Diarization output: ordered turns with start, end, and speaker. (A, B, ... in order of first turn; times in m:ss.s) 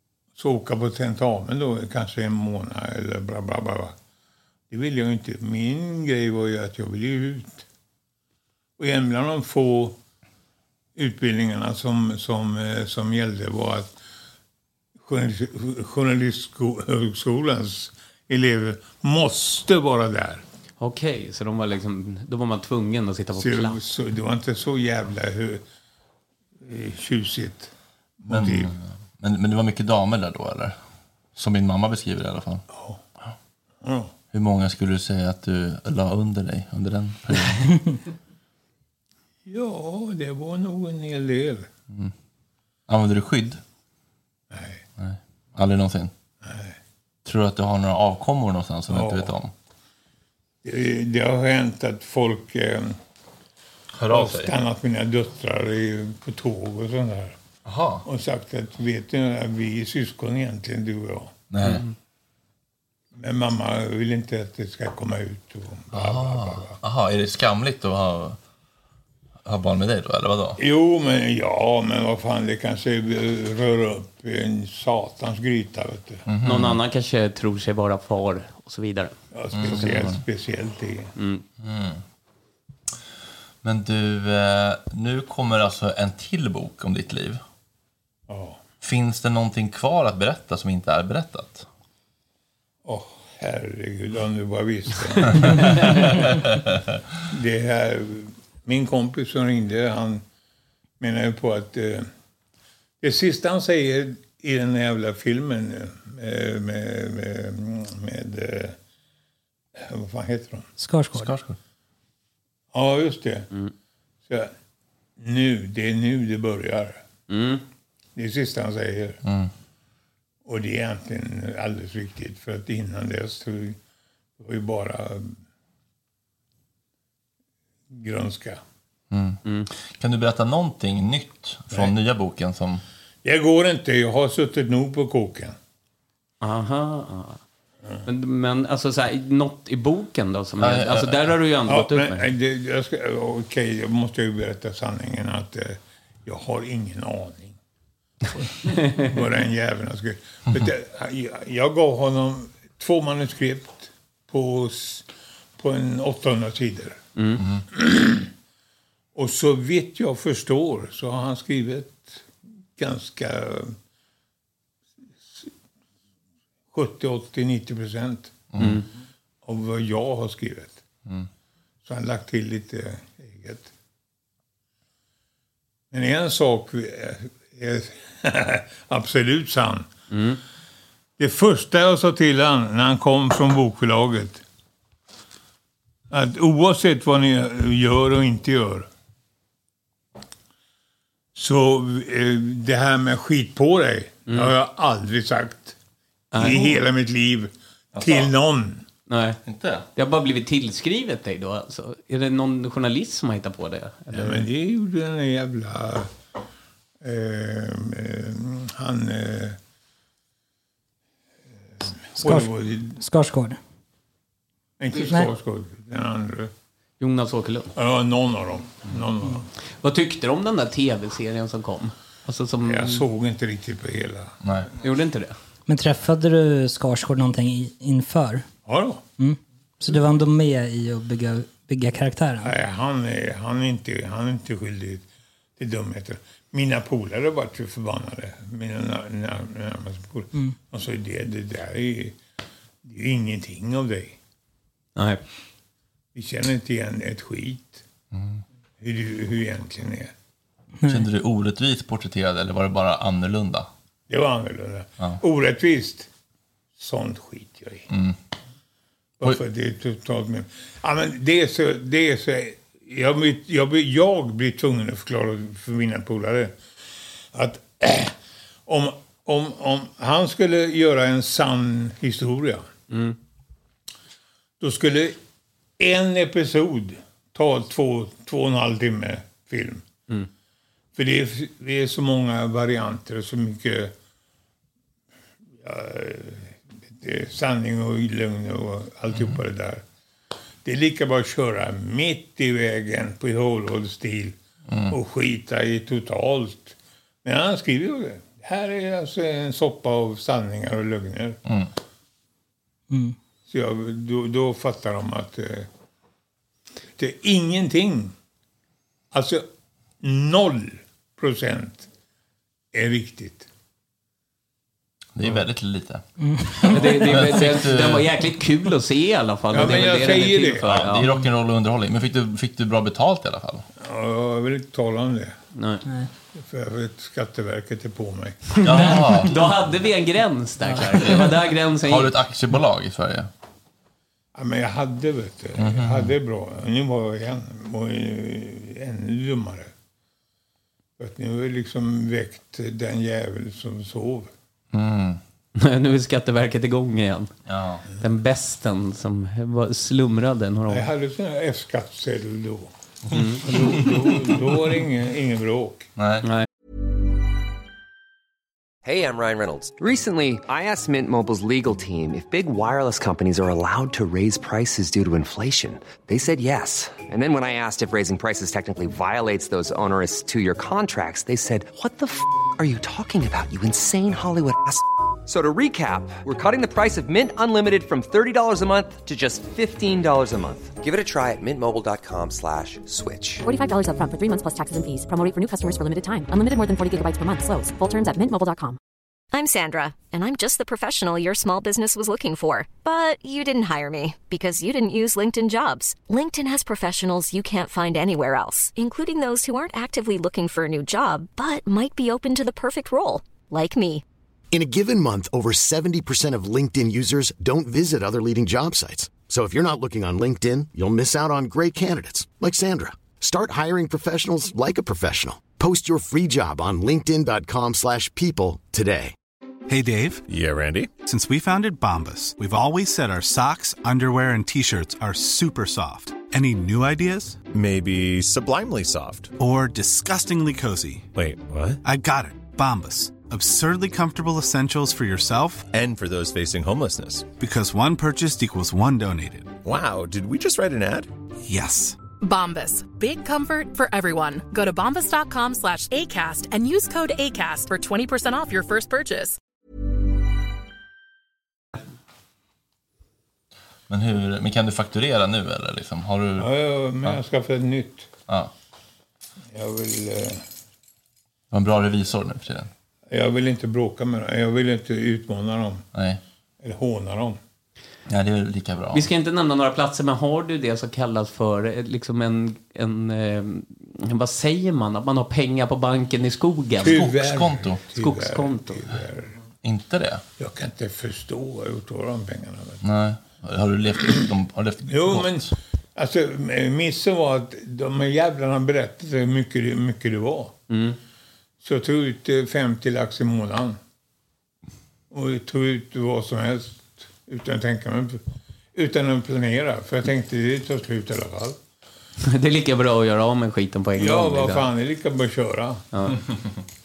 0:00.4-0:04.0 A
0:04.7-0:07.6 A
0:08.8-0:10.0 A
0:11.0-0:13.9 A
0:15.0-0:20.4 A
0:20.8-0:23.8 B
0:23.4-0:25.6 A
0:26.6-0:27.7 A
0:28.2-0:28.7 A
0:28.3-0:30.8 C
0:31.4-0:32.6 C
0:32.7-0:33.0 A
0:33.8-0:34.1 A
0:34.3-0:37.7 C
0:39.4-0:41.7 A
0:42.9-0:43.6 C
0:44.5-0:44.8 A
0:45.0-0:46.1 C
0:46.4-0:46.8 A
0:47.2-0:49.5 C
0:48.9-0:49.3 A
0:50.6-0:53.0 A
0:54.0-0:54.5 C
0:54.1-0:57.4 A
0:57.6-0:58.0 C
0:58.0-1:01.4 A
1:01.5-1:01.8 C
1:03.1-1:06.8 A
1:05.9-1:08.4 C
1:09.4-1:10.6 C
1:10.6-1:16.2 A
1:16.3-1:16.8 C
1:16.4-1:19.1 B
1:19.3-1:21.1 A
1:19.5-1:20.2 C
1:19.6-1:20.0 B
1:21.2-1:21.4 B
1:21.6-1:22.0 C
1:23.6-1:27.4 C
1:28.3-1:28.6 A
1:28.8-1:31.7 C
1:32.8-1:36.4 A
1:37.3-1:40.2 A
1:41.0-1:42.1 A
1:43.0-1:48.8 A
1:49.8-1:50.7 A
1:50.8-1:51.3 D
1:51.1-1:51.6 C
1:52.7-1:53.5 A
1:55.2-1:57.0 A
1:57.3-1:57.6 B
1:58.2-1:59.2 A
1:59.2-1:59.5 C
2:00.4-2:03.8 A
2:04.4-2:05.4 A
2:07.9-2:08.6 A
2:09.1-2:12.8 C
2:13.2-2:15.6 A
2:16.4-2:17.4 B
2:18.0-2:22.3 B
2:20.6-2:21.3 C
2:21.7-2:27.6 A
2:28.6-2:29.1 B
2:28.6-2:37.0 A
2:37.2-2:37.4 B
2:37.7-2:38.3 A
2:39.1-2:42.2 A
2:42.8-2:43.8 A
2:46.7-2:48.7 A
2:48.5-2:48.8 C
2:48.6-2:48.8 B
2:49.4-2:50.8 A
2:51.8-2:53.7 A
2:55.9-2:59.9 A
3:00.1-3:00.4 B
3:01.2-3:04.4 A
3:06.1-3:08.9 A
3:11.3-3:15.8 A
3:16.3-3:16.8 B
3:16.3-3:18.8 A
3:18.0-3:18.3 C
3:19.1-3:19.4 B
3:19.4-3:19.9 C
3:20.0-3:24.5 B
3:24.1-3:26.1 A
3:27.0-3:29.6 A
3:32.1-3:33.0 A
3:32.2-3:33.6 D
3:34.8-3:36.5 A
3:37.0-3:37.7 B
3:37.7-3:39.5 A
3:39.8-3:43.0 B
3:42.6-3:44.3 A
3:44.4-3:44.7 C
3:44.8-3:45.3 B
3:45.7-3:48.4 D
3:48.6-3:49.0 A
3:49.2-3:52.5 D
3:52.4-3:55.0 A
3:55.6-4:02.2 A
4:02.8-4:04.2 A
4:05.0-4:05.2 B
4:06.1-4:07.8 A
4:08.1-4:08.4 C
4:08.8-4:10.1 A
4:10.9-4:13.7 C
4:14.1-4:16.1 A
4:16.8-4:17.9 A
4:17.9-4:18.2 C
4:19.2-4:26.6 A
4:27.3-4:28.1 A
4:28.6-4:32.7 A
4:32.9-4:33.2 B
4:34.6-4:35.2 A
4:35.8-4:39.8 A
4:40.9-4:43.9 A
4:45.6-4:49.8 A
4:50.6-4:54.4 A
4:54.9-5:01.4 A
5:02.9-5:03.2 D
5:03.5-5:05.7 A
5:07.0-5:08.1 A
5:09.1-5:09.4 A
5:10.0-5:11.9 A
5:12.7-5:13.5 A
5:15.2-5:16.0 C
5:16.2-5:16.8 D
5:16.6-5:18.1 C
5:16.7-5:21.1 B
5:19.5-5:20.6 A
5:20.6-5:23.6 C
5:23.8-5:25.4 A
5:25.5-5:25.8 B
5:26.4-5:28.6 A
5:28.6-5:29.4 C
5:28.7-5:32.1 B
5:31.8-5:33.3 C
5:34.3-5:39.7 A
5:35.6-5:36.1 C
5:41.0-5:44.3 A
5:44.7-5:45.2 C
5:45.6-5:47.3 B
5:47.5-5:47.8 C
5:48.0-5:50.9 B
5:50.7-5:52.7 A
5:53.1-5:53.4 B
5:53.4-5:55.9 A
5:56.0-5:56.3 C
5:58.8-6:23.4 E
6:23.4-6:28.8 F
6:29.3-6:44.0 G
6:44.5-6:59.1 H
6:59.7-7:00.2 I
7:00.3-7:00.9 J
7:01.0-7:07.4 I
7:07.5-7:09.3 J
7:09.4-7:11.1 I
7:11.1-7:11.8 J
7:11.8-7:15.6 I
7:15.7-7:17.3 J
7:17.4-7:19.5 I
7:19.6-7:21.1 J
7:21.4-7:22.0 I
7:22.2-7:29.4 K
7:33.9-7:36.5 C
7:36.4-7:38.1 A
7:39.5-7:40.4 A
7:41.5-7:42.7 C
7:43.1-7:45.8 A
7:45.9-7:46.2 C
7:46.6-7:47.4 A
7:48.1-7:49.1 C
7:48.9-7:57.0 B
7:56.8-7:59.4 A
7:56.8-7:57.8 C
7:58.0-7:58.8 B
7:59.6-8:00.2 C
8:00.4-8:02.8 A
8:02.8-8:05.5 C
8:04.8-8:10.6 A
8:10.7-8:11.0 B
8:11.6-8:13.8 A
8:15.1-8:18.2 A
8:18.7-8:21.6 A
8:22.2-8:24.7 B
8:24.0-8:25.8 A